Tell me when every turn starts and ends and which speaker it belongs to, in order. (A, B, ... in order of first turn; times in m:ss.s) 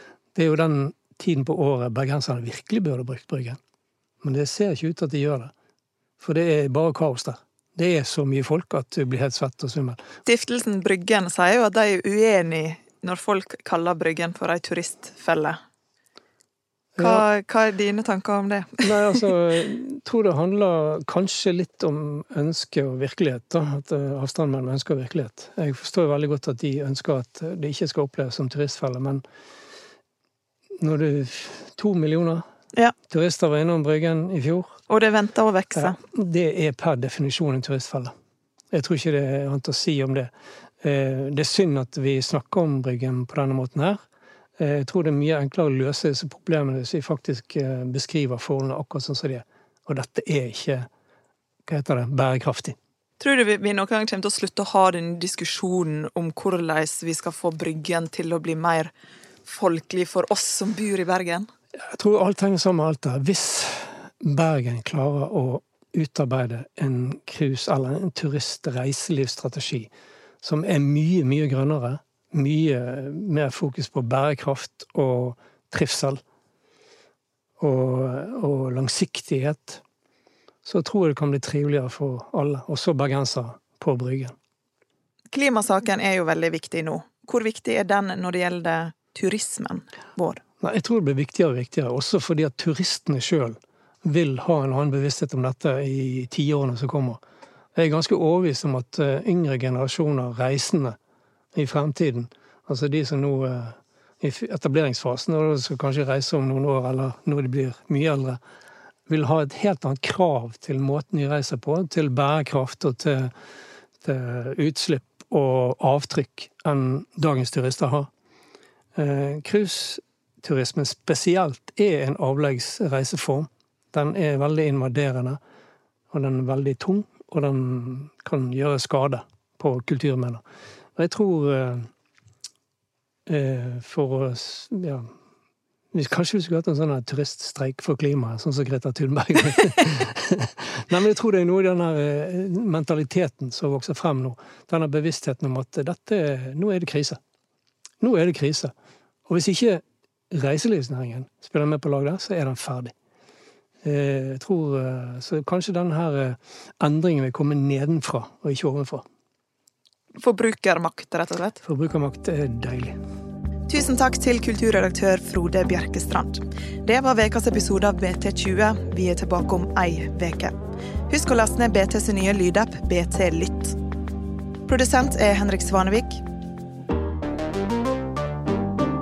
0:00.4-0:03.6 A
0:04.2-0:05.5 A
0:06.2-0:10.0 A
0:10.3-0:15.6 B
0:17.0-0:17.2 A
0:17.0-0:18.8 B
0:18.8-0:29.2 A
0:30.8-0:32.4 A
0:33.1-0:34.8 A
0:34.9-0:36.0 B
0:35.8-0:38.1 A
0:38.7-0:40.3 A
0:40.8-0:44.0 A
0:44.6-0:50.9 A
0:51.7-0:52.8 A
0:53.2-0:58.9 B
0:59.4-1:01.5 B
1:01.9-1:09.9 A
1:10.4-1:16.2 A
1:17.6-1:19.8 A
1:20.6-1:24.3 A
1:25.3-1:30.4 B
1:30.6-1:37.2 A
1:37.8-1:41.0 A
1:41.6-1:48.4 A
1:49.1-1:53.3 A
1:54.0-1:58.1 A
1:59.0-2:05.4 A
2:06.1-2:10.4 A
2:11.0-2:11.9 A
2:13.3-2:15.1 A
2:15.9-2:27.2 A
2:28.0-2:28.7 A
2:29.3-2:32.9 A
2:33.8-2:39.0 A
2:40.2-2:41.6 B
2:41.6-2:43.0 A
2:43.7-2:50.6 B
2:51.1-2:53.8 B
2:54.7-2:56.2 B